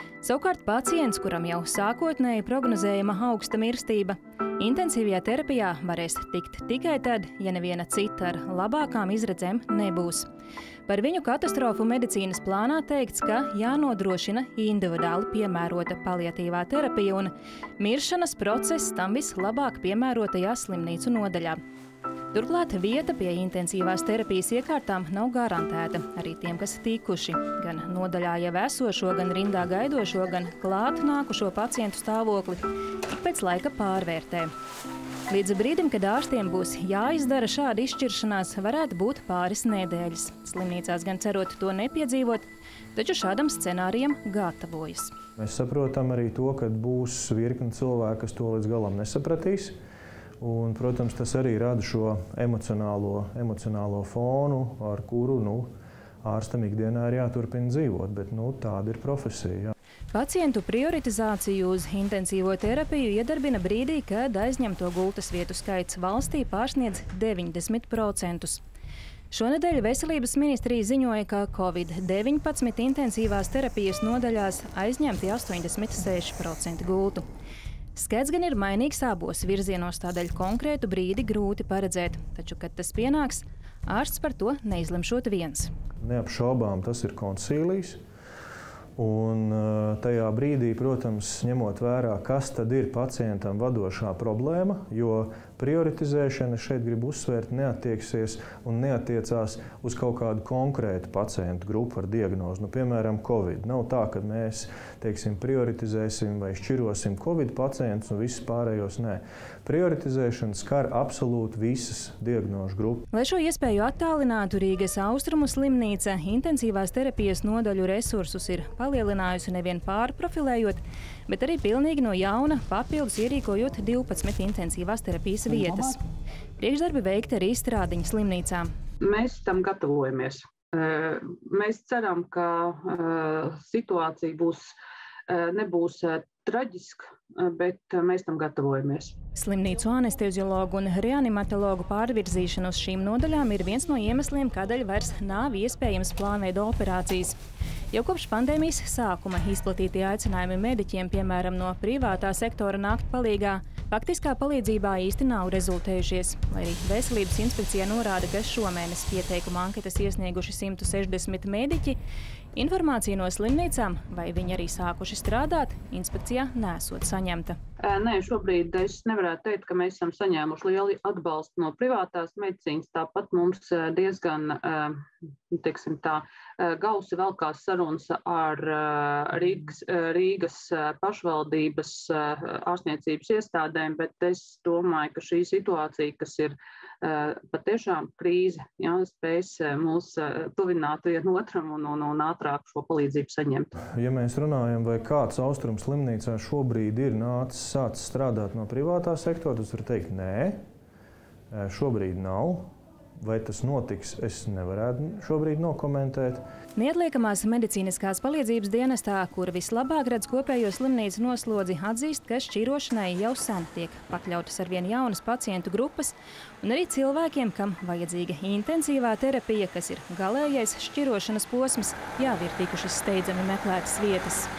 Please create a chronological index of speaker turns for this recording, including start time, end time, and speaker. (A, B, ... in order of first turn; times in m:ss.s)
0:00.2-0:10.3 A
0:10.9-0:21.6 A
0:22.3-0:34.5 A
0:35.3-0:45.1 A
0:45.4-0:49.7 B
0:50.4-0:55.7 B
0:56.2-0:59.7 B
1:00.1-1:08.6 A
1:09.3-1:17.2 A
1:18.0-1:25.7 A
1:26.0-1:28.0 B
1:29.0-1:53.0 B
1:53.1-2:06.0 A
2:06.6-2:08.7 A
2:09.0-2:14.7 C
2:15.3-2:19.2 C
2:19.4-2:27.4 A
2:27.9-2:42.0 A
2:42.5-2:47.6 A
2:47.8-2:54.9 C
2:55.5-3:13.7 C
3:13.9-3:20.6 B
3:21.5-3:22.7 B
3:23.2-3:26.4 B
3:26.8-3:44.5 A